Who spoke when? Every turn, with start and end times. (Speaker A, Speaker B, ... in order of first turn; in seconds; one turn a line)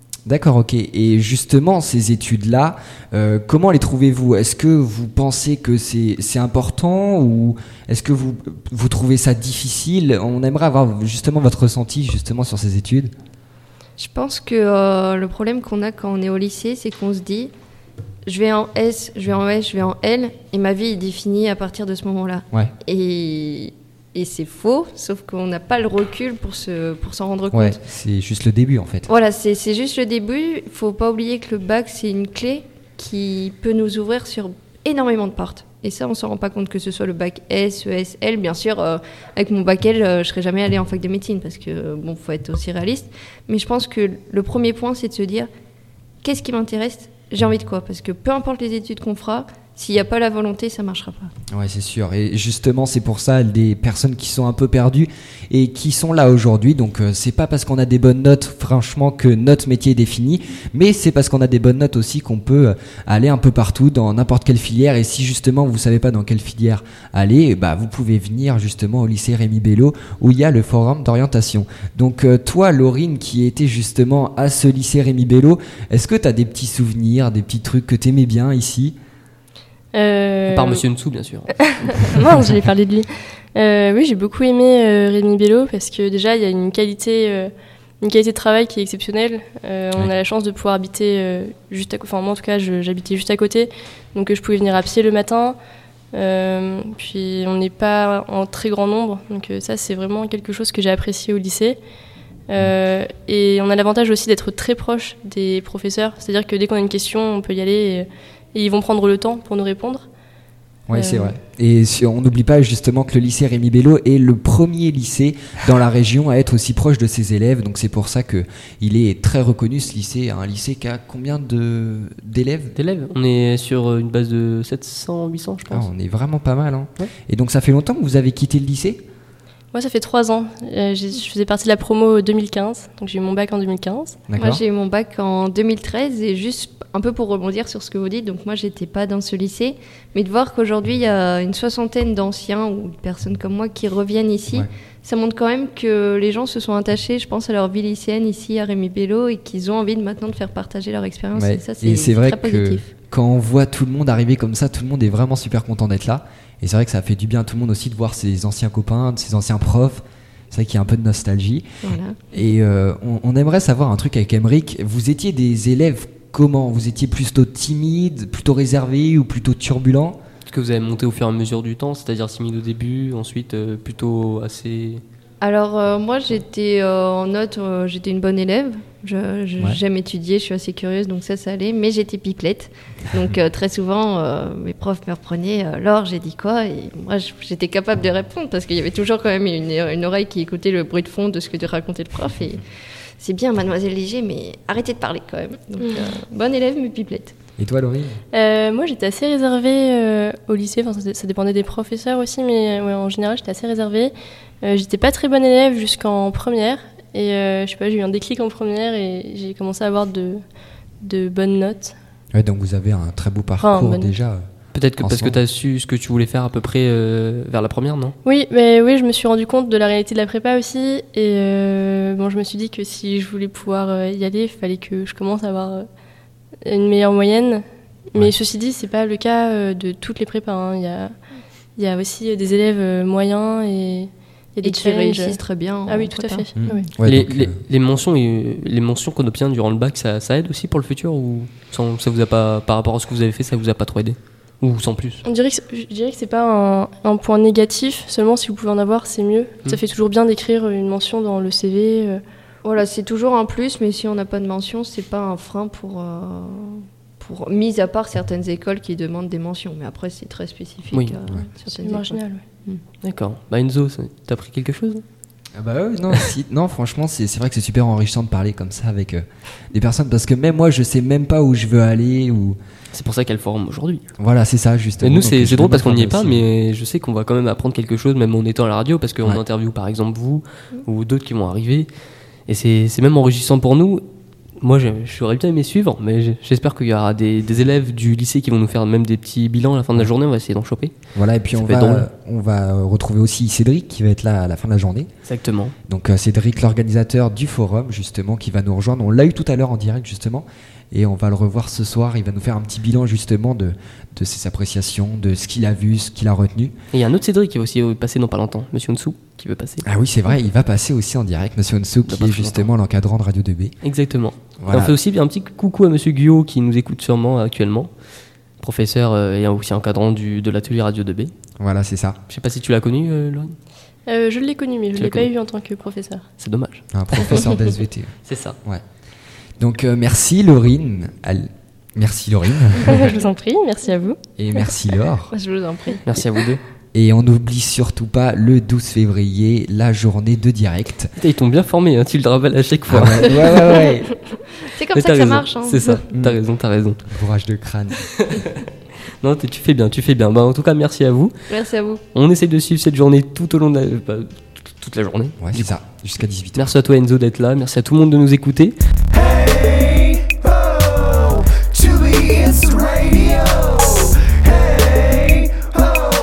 Speaker A: 0.2-13.1
Speaker B: 14.0-17.5
Speaker B: 18.2-27.8
Speaker A: 27.5-29.1
Speaker B: 29.1-45.5
Speaker B: 46.2-51.3
Speaker A: 51.5-78.9
Speaker C: 79.9-80.8
Speaker D: 80.5-82.2
Speaker C: 81.5-95.6
Speaker C: 96.1-101.8
Speaker C: 102.5-110.1
Speaker A: 110.9-122.7
Speaker C: 110.9-111.3
Speaker D: 122.7-125.9
Speaker A: 125.7-129.0
Speaker C: 129.7-134.2
Speaker A: 134.3-134.6
Speaker B: 134.3-152.9
Speaker A: 151.3-161.6
Speaker B: 161.8-162.3
Speaker A: 162.3-170.2
Speaker D: 170.5-175.0
Speaker B: 175.4-192.6
Speaker B: 193.2-197.3
Speaker A: 197.6-198.2
Speaker C: 198.3-210.4
Speaker C: 211.0-211.9
Speaker A: 212.3-214.4
Speaker C: 213.6-214.1
Speaker D: 214.7-218.1
Speaker A: 215.0-215.4
Speaker C: 218.2-225.8
Speaker C: 226.6-231.1
Speaker C: 231.8-236.9
Speaker B: 234.6-236.5
Speaker A: 236.5-237.6
Speaker D: 237.0-245.2
Speaker C: 245.2-252.2
Speaker B: 252.6-262.8
Speaker C: 261.7-262.4
Speaker D: 263.0-265.0
Speaker A: 265.6-272.6
Speaker D: 272.9-274.0
Speaker A: 274.2-276.4
Speaker D: 275.0-281.9
Speaker D: 282.5-284.0
Speaker D: 284.6-290.9
Speaker A: 291.1-295.1
Speaker D: 291.5-292.1
Speaker D: 295.2-295.7
Speaker A: 295.9-306.8
Speaker D: 306.9-309.8
Speaker A: 309.8-313.7
Speaker D: 312.1-312.7
Speaker D: 313.8-317.9
Speaker A: 314.6-314.9
Speaker D: 318.6-321.3
Speaker A: 321.6-322.2
Speaker D: 322.3-323.5
Speaker C: 324.1-326.2
Speaker D: 324.9-325.3
Speaker D: 326.4-327.5
Speaker A: 326.9-328.1
Speaker D: 328.2-328.6
Speaker A: 329.6-333.1
Speaker C: 332.9-334.7
Speaker A: 334.4-335.3
Speaker B: 335.3-336.0
Speaker D: 336.0-336.6
Speaker A: 336.9-341.1
Speaker D: 341.2-343.9
Speaker A: 342.9-344.1
Speaker B: 344.4-346.1
Speaker D: 344.9-347.0
Speaker A: 346.1-346.4
Speaker A: 347.1-348.0
Speaker D: 348.0-348.7
Speaker D: 349.2-351.3
Speaker B: 351.5-352.0
Speaker D: 352.1-355.7
Speaker A: 355.4-356.7
Speaker D: 356.6-358.8
Speaker D: 362.0-362.4
Speaker D: 362.9-363.3